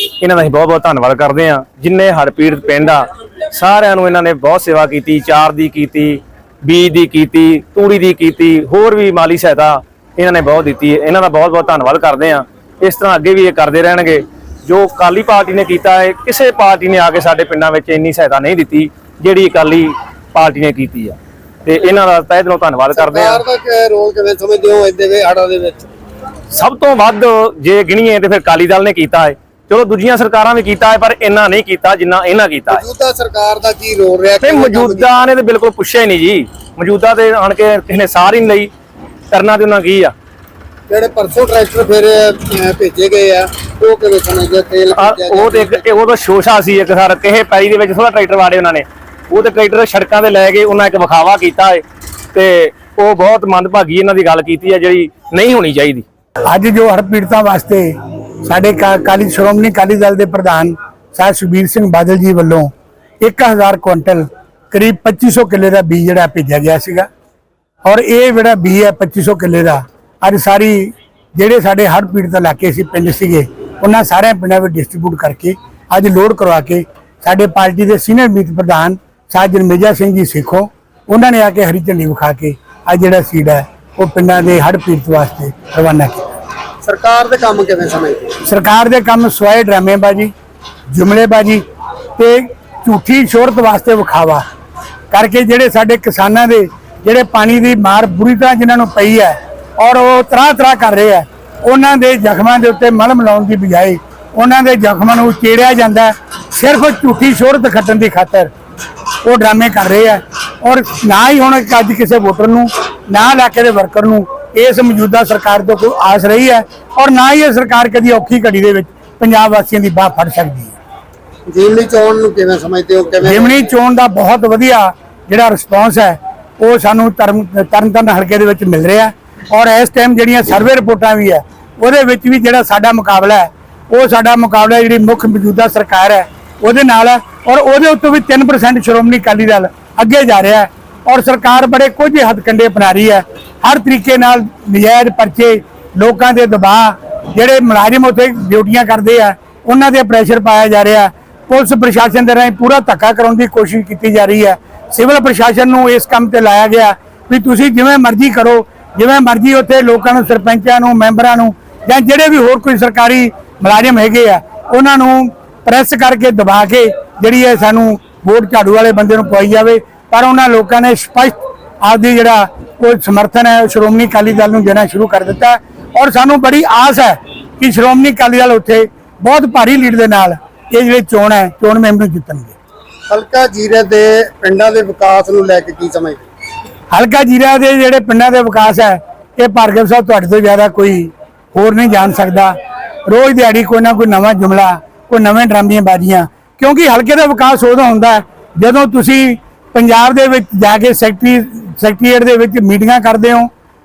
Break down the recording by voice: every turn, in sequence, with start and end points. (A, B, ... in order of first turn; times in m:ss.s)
0:00.2-0:23.4 A
0:22.9-0:25.9 B
0:26.5-0:32.8 A
0:32.7-0:35.2 B
0:34.4-0:38.7 A
0:39.3-0:40.1 A
0:40.9-0:45.9 B
0:45.0-0:51.8 A
0:52.3-0:56.0 A
0:56.5-0:57.9 C
0:58.4-1:07.1 C
1:07.8-1:26.2 C
1:26.8-1:28.3 B
1:28.4-1:30.3 C
1:30.9-1:31.6 C
1:32.2-1:34.4 C
1:35.1-1:48.5 C
1:49.2-2:00.8 C
2:01.5-2:03.7 B
2:03.2-3:02.6 C
3:03.1-3:06.2 B
3:06.9-3:12.5 C
3:13.1-3:23.5 C